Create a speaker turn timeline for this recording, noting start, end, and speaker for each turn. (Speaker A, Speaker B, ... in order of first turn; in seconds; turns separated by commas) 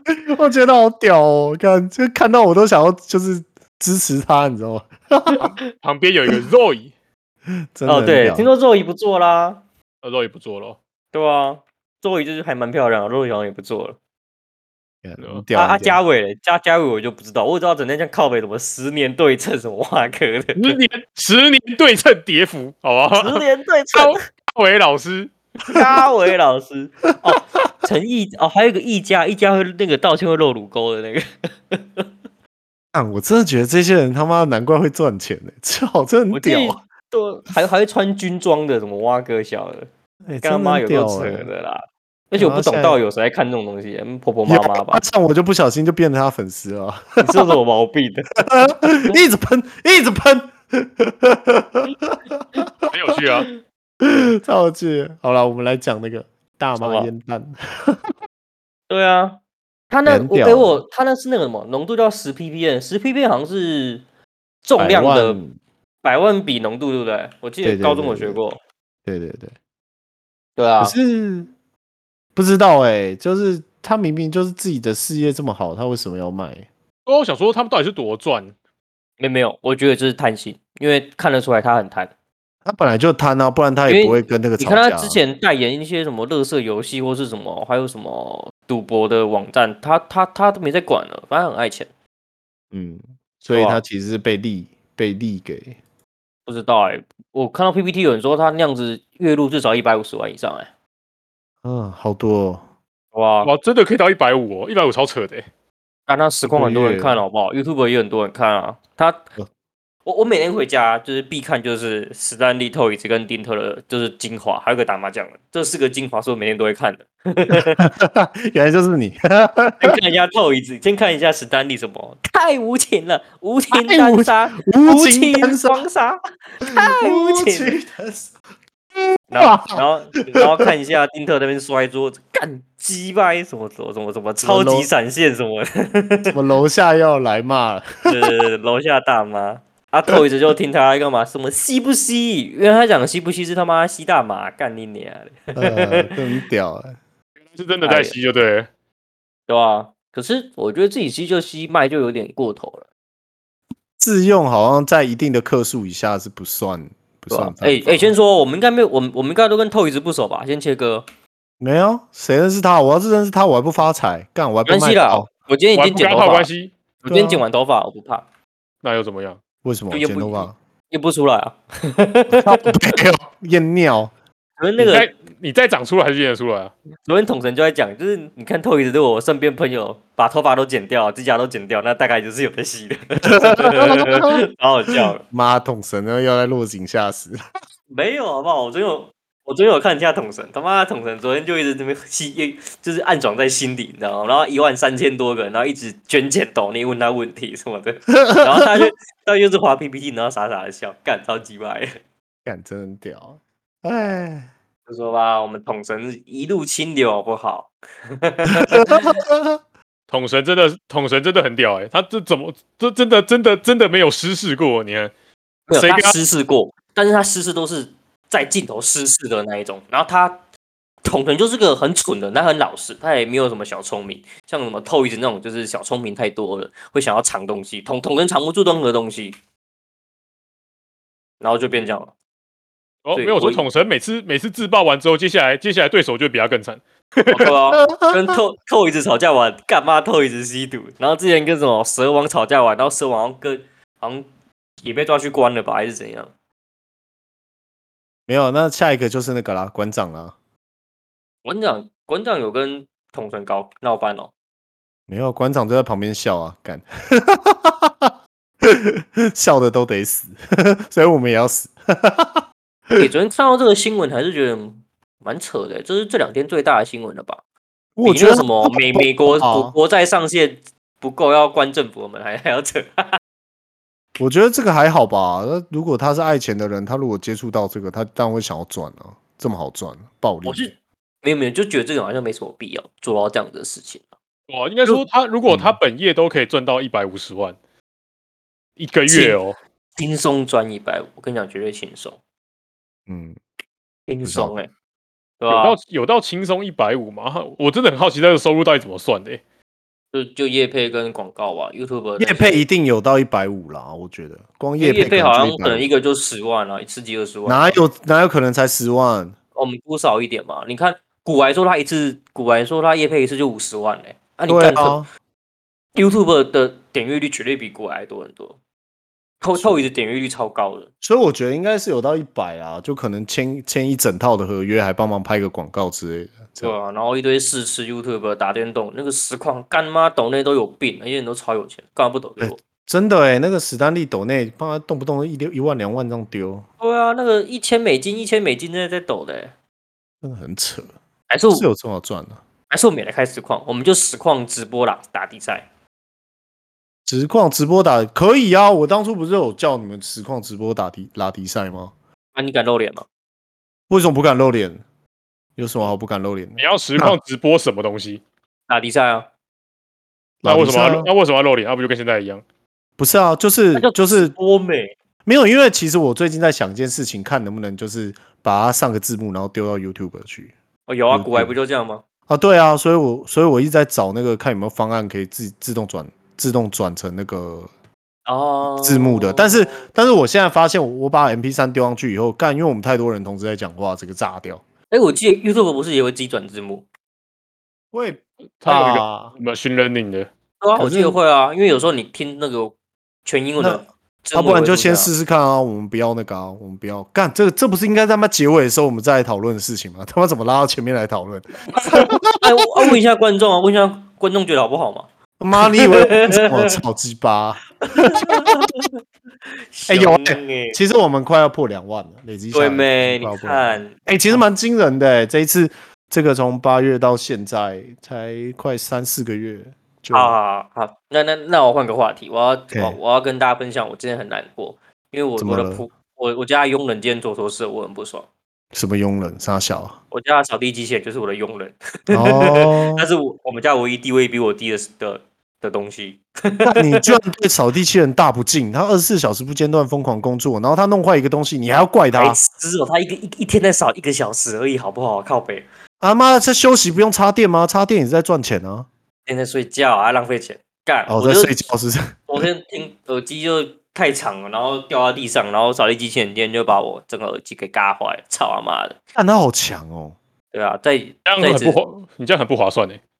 Speaker A: 0.2-5.4, Speaker B: 5.4-6.9, Speaker A: 7.7-8.5, Speaker C: 7.8-9.6, Speaker B: 10.0-10.8, Speaker C: 11.1-14.0, Speaker A: 15.0-16.0, Speaker C: 15.5-20.8, Speaker B: 20.6-25.3, Speaker C: 23.1-24.1, Speaker C: 25.7-32.1, Speaker A: 32.9-36.8, Speaker C: 36.3-39.9, Speaker A: 40.3-41.5, Speaker C: 40.4-45.0, Speaker A: 42.4-43.0, Speaker A: 44.5-47.5, Speaker C: 47.2-48.3, Speaker A: 48.4-52.9, Speaker B: 52.9-53.5, Speaker A: 54.0-58.1, Speaker C: 56.8-57.1, Speaker C: 58.9-59.4, Speaker C: 59.9-64.0, Speaker A: 60.0-60.8, Speaker C: 64.6-65.4, Speaker A: 64.8-65.5, Speaker C: 66.0-68.6, Speaker A: 67.6-68.4, Speaker A: 69.0-69.5, Speaker C: 70.5-71.0, Speaker A: 70.8-71.5, Speaker A: 72.3-76.7, Speaker B: 77.1-78.5, Speaker C: 79.2-82.1, Speaker A: 82.6-85.2, Speaker C: 83.9-91.9, Speaker A: 92.7-95.8, Speaker C: 93.5-93.8, Speaker C: 96.5-100.7, Speaker A: 101.6-102.6, Speaker C: 103.1-103.5, Speaker B: 103.4-105.4, Speaker C: 106.1-109.2, Speaker A: 106.5-107.2, Speaker C: 110.0-117.8, Speaker A: 117.8-120.0, Speaker C: 119.8-127.8, Speaker A: 123.7-125.8, Speaker A: 126.7-128.3, Speaker C: 129.3-136.3, Speaker A: 129.4-130.7, Speaker A: 134.4-134.9, Speaker A: 136.3-138.3, Speaker C: 138.1-146.2, Speaker A: 145.5-146.9, Speaker B: 147.5-148.7, Speaker C: 147.8-148.2, Speaker C: 149.5-152.8, Speaker A: 154.0-158.1, Speaker C: 157.3-161.0, Speaker A: 161.6-165.3, Speaker C: 164.7-166.5, Speaker B: 165.7-166.7, Speaker C: 167.0-168.2, Speaker A: 167.1-167.4, Speaker B: 168.8-169.4, Speaker A: 169.6-170.5, Speaker C: 169.9-172.9, Speaker A: 172.3-174.1, Speaker C: 174.6-175.1, Speaker B: 174.8-176.7, Speaker C: 177.1-185.2, Speaker A: 183.3-184.3, Speaker A: 185.3-187.4, Speaker C: 187.9-201.9, Speaker A: 198.2-198.9, Speaker A: 202.4-204.5, Speaker C: 204.9-209.2, Speaker A: 208.6-209.6, Speaker B: 210.1-215.1, Speaker C: 215.7-220.4, Speaker B: 215.8-216.1, Speaker C: 221.0-229.3, Speaker C: 231.4-232.1, Speaker B: 233.0-237.5, Speaker C: 233.1-233.6, Speaker C: 237.3-244.3, Speaker A: 237.9-238.2, Speaker C: 244.8-246.3, Speaker A: 248.3-250.3, Speaker C: 251.4-254.3, Speaker A: 255.1-258.1, Speaker A: 258.6-263.1, Speaker C: 263.0-267.4, Speaker A: 267.9-269.7, Speaker C: 268.0-273.2, Speaker A: 274.2-280.7, Speaker C: 280.4-284.0, Speaker B: 284.5-287.6, Speaker A: 285.5-285.8, Speaker B: 288.8-289.6, Speaker C: 289.1-289.4, Speaker C: 289.9-292.2, Speaker A: 293.1-293.4, Speaker C: 294.1-294.7, Speaker A: 294.2-294.5, Speaker C: 295.4-295.8, Speaker B: 295.5-299.4, Speaker C: 300.1-302.6, Speaker A: 302.2-305.9, Speaker C: 304.8-307.8, Speaker A: 307.4-309.4, Speaker C: 309.5-315.0, Speaker A: 314.5-315.1, Speaker C: 315.9-318.6, Speaker C: 319.4-320.9, Speaker A: 319.5-319.8, Speaker A: 321.0-326.7, Speaker C: 326.6-332.6, Speaker A: 332.4-336.6, Speaker C: 336.8-339.5, Speaker A: 340.2-340.9, Speaker C: 341.3-341.7, Speaker A: 341.5-342.4, Speaker C: 342.7-345.6, Speaker A: 347.1-351.9, Speaker C: 352.3-353.1, Speaker A: 353.9-354.8, Speaker A: 355.6-357.2, Speaker B: 356.6-358.2, Speaker C: 358.7-359.3, Speaker A: 360.4-361.1, Speaker B: 360.4-362.4, Speaker A: 363.0-364.3, Speaker C: 363.8-364.9, Speaker A: 365.2-370.5, Speaker C: 370.9-372.0, Speaker A: 371.1-371.5, Speaker A: 372.3-377.7, Speaker C: 378.2-379.8, Speaker A: 378.8-384.6, Speaker C: 384.9-386.9, Speaker A: 387.9-389.3, Speaker B: 388.6-390.3, Speaker C: 390.6-395.1, Speaker A: 390.8-391.1, Speaker A: 393.6-402.4, Speaker C: 402.4-405.1, Speaker A: 405.4-408.5, Speaker C: 405.7-406.8, Speaker C: 407.8-408.9, Speaker C: 409.7-410.8, Speaker A: 409.9-420.4, Speaker C: 412.5-414.4, Speaker C: 420.1-428.3, Speaker A: 422.7-423.0, Speaker A: 425.4-425.8, Speaker A: 428.7-430.0, Speaker C: 430.1-437.1, Speaker A: 432.1-433.1, Speaker A: 436.6-442.4, Speaker C: 442.1-445.6, Speaker A: 446.0-448.9, Speaker C: 449.2-451.6, Speaker A: 451.1-452.4, Speaker C: 452.3-459.0, Speaker A: 459.1-460.1, Speaker C: 460.5-461.8, Speaker B: 461.2-463.0